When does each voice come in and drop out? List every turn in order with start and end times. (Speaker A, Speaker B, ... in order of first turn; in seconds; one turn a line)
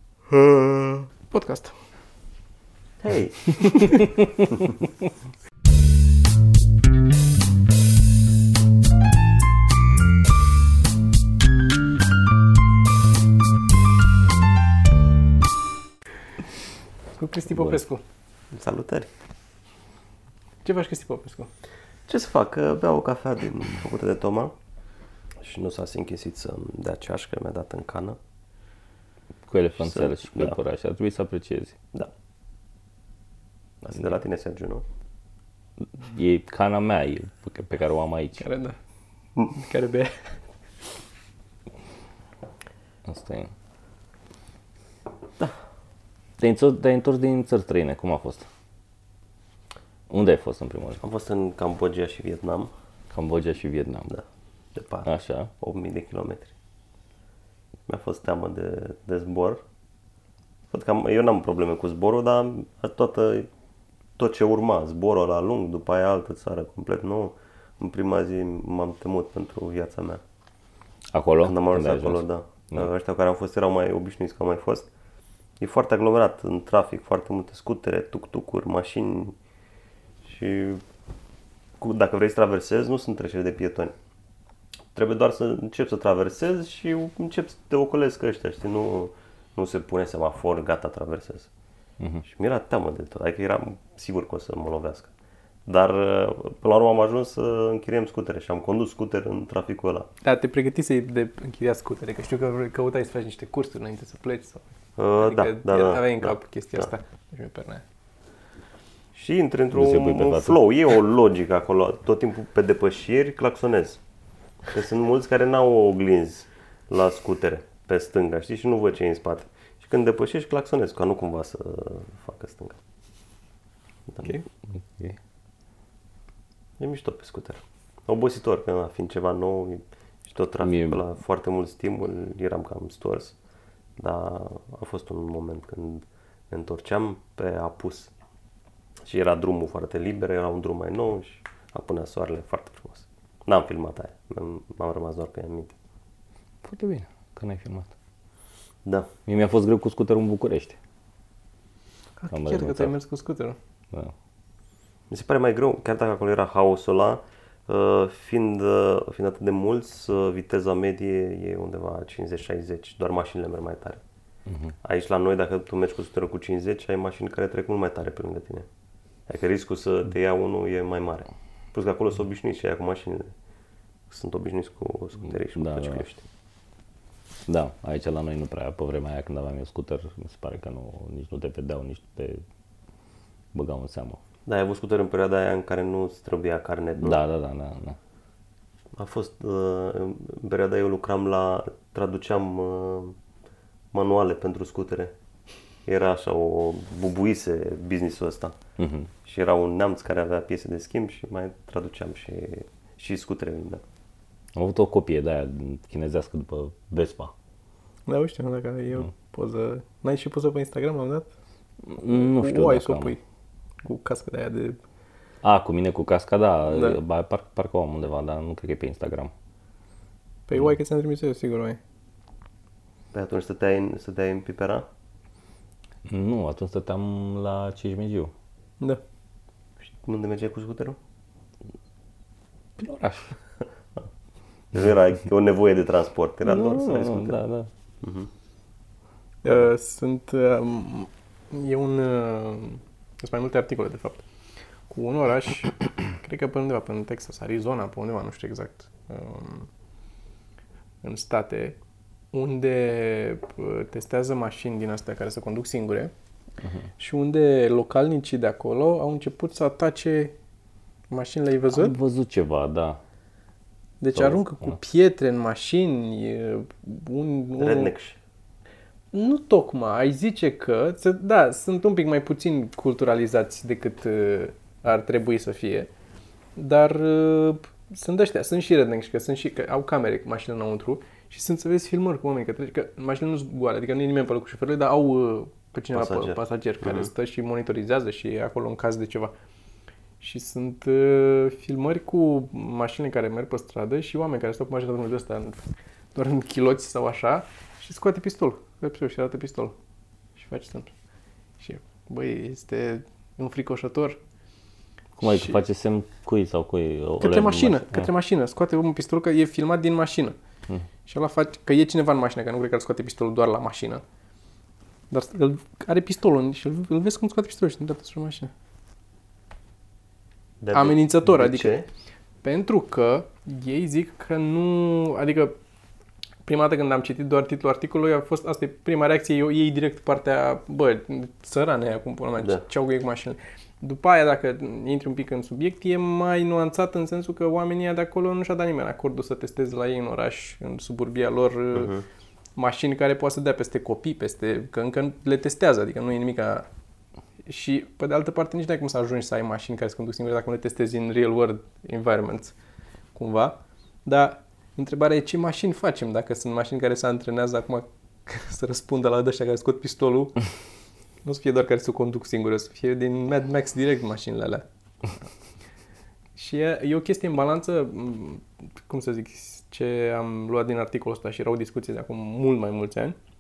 Speaker A: 0.4-1.8
Speaker B: 3.0-3.9
Speaker A: 3.6-4.0
Speaker A: 17.2-18.0
Speaker B: 18.5-19.1
Speaker A: 20.6-21.5
Speaker B: 22.1-24.6
Speaker B: 25.4-28.2
Speaker C: 29.5-31.8
Speaker B: 29.8-30.6
Speaker B: 33.8-34.8
Speaker C: 35.8-38.5
Speaker A: 38.4-38.8
Speaker A: 39.5-40.4
Speaker C: 43.1-43.5
Speaker C: 46.4-48.5
Speaker C: 50.1-51.0
Speaker B: 51.0-52.7
Speaker C: 53.1-54.1
Speaker B: 54.1-56.5
Speaker C: 55.0-55.5
Speaker B: 57.9-59.6
Speaker B: 60.7-63.5
Speaker B: 64.2-70.2
Speaker C: 71.1-72.9
Speaker B: 71.4-74.9
Speaker B: 75.6-79.3
Speaker B: 80.2-80.8
Speaker B: 81.8-83.9
Speaker B: 84.9-91.5
Speaker B: 92.2-95.1
Speaker B: 95.7-100.1
Speaker A: 100.2-104.7
Speaker B: 105.0-106.9
Speaker A: 105.2-107.8
Speaker B: 109.2-114.0
Speaker C: 109.7-110.6
Speaker B: 114.7-122.8
Speaker C: 124.8-125.2
Speaker B: 126.8-133.4
Speaker C: 130.6-131.0
Speaker B: 134.0-138.1
Speaker B: 139.1-145.7
Speaker C: 146.6-147.9
Speaker C: 149.3-150.8
Speaker A: 152.2-153.6
Speaker C: 152.3-152.9
Speaker B: 155.1-164.0
Speaker C: 164.5-164.7
Speaker B: 164.8-168.7
Speaker B: 169.3-173.3
Speaker B: 174.1-176.2
Speaker C: 175.6-176.0
Speaker C: 177.5-182.4
Speaker C: 183.5-184.2
Speaker B: 184.5-187.2
Speaker C: 187.0-188.0
Speaker B: 188.9-193.2
Speaker B: 193.9-195.1
Speaker B: 195.9-198.6
Speaker C: 198.8-199.1
Speaker B: 199.2-203.8
Speaker C: 204.6-207.3
Speaker A: 208.1-211.3
Speaker C: 211.9-213.2
Speaker A: 212.0-213.2
Speaker A: 213.8-214.8
Speaker C: 215.4-219.3
Speaker A: 216.7-217.0
Speaker A: 220.5-221.8
Speaker B: 223.1-224.9
Speaker C: 226.1-228.3
Speaker B: 229.9-231.0
Speaker C: 232.8-233.4
Speaker B: 234.7-237.4
Speaker C: 236.4-237.7
Speaker B: 238.0-238.3
Speaker A: 239.4-244.2
Speaker A: 244.9-249.7
Speaker A: 251.0-251.8
Speaker A: 252.3-256.1
Speaker C: 256.6-256.9
Speaker A: 257.0-260.4
Speaker A: 261.1-262.0
Speaker C: 261.7-263.0
Speaker A: 264.0-267.9
Speaker C: 264.1-264.8
Speaker B: 267.6-268.2
Speaker A: 269.1-275.9
Speaker A: 276.6-289.3
Speaker B: 285.9-287.1
Speaker A: 290.2-299.7
Speaker A: 300.4-300.9
Speaker A: 301.6-304.2
Speaker C: 305.2-308.1
Speaker A: 305.2-305.6
Speaker A: 307.2-310.4
Speaker A: 311.1-314.0
Speaker A: 315.1-318.5
Speaker B: 320.6-321.9
Speaker A: 320.7-321.8
Speaker A: 322.4-325.5
Speaker A: 326.5-341.9
Speaker B: 341.7-342.1
Speaker A: 342.6-346.7
Speaker A: 347.5-352.6
Speaker A: 353.1-360.4
Speaker A: 361.2-364.6
Speaker A: 366.4-373.2